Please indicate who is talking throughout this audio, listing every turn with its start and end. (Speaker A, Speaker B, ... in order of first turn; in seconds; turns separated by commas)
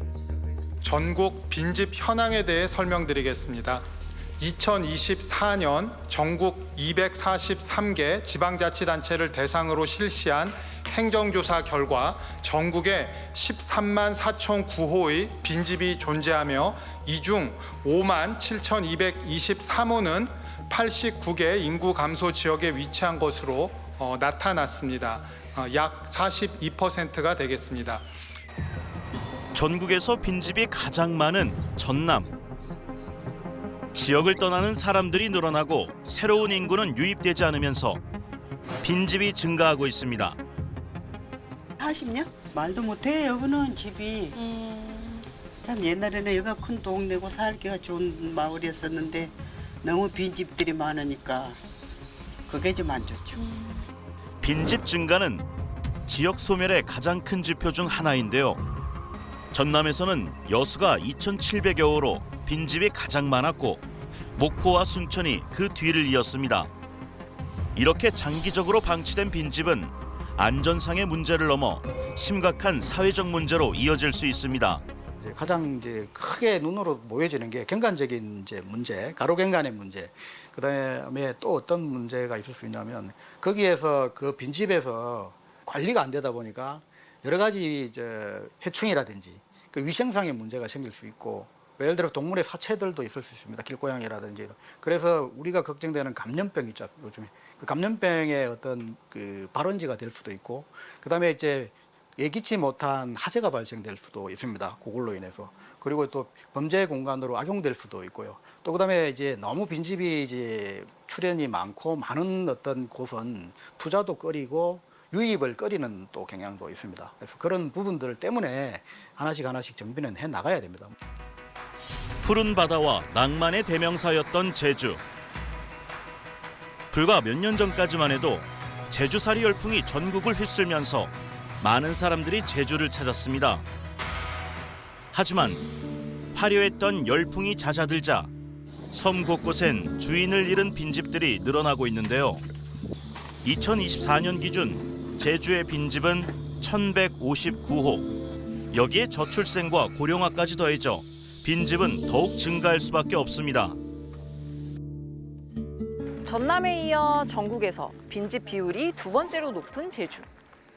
Speaker A: 0.8-3.8, Speaker A: 4.4-28.0, Speaker B: 29.5-32.3, Speaker B: 33.9-38.0, Speaker B: 38.8-40.4, Speaker C: 41.8-51.6, Speaker C: 52.5-53.8, Speaker B: 54.4-55.5, Speaker B: 56.1-58.6, Speaker B: 59.5-63.8, Speaker B: 64.3-66.7, Speaker B: 67.7-74.8, Speaker D: 75.2-120.9, Speaker B: 122.2-125.0, Speaker B: 126.9-133.6, Speaker B: 135.1-135.7, Speaker B: 136.3-138.3, Speaker B: 138.9-142.4, Speaker B: 143.4-148.1, Speaker B: 148.7-153.8, Speaker E: 156.2-160.3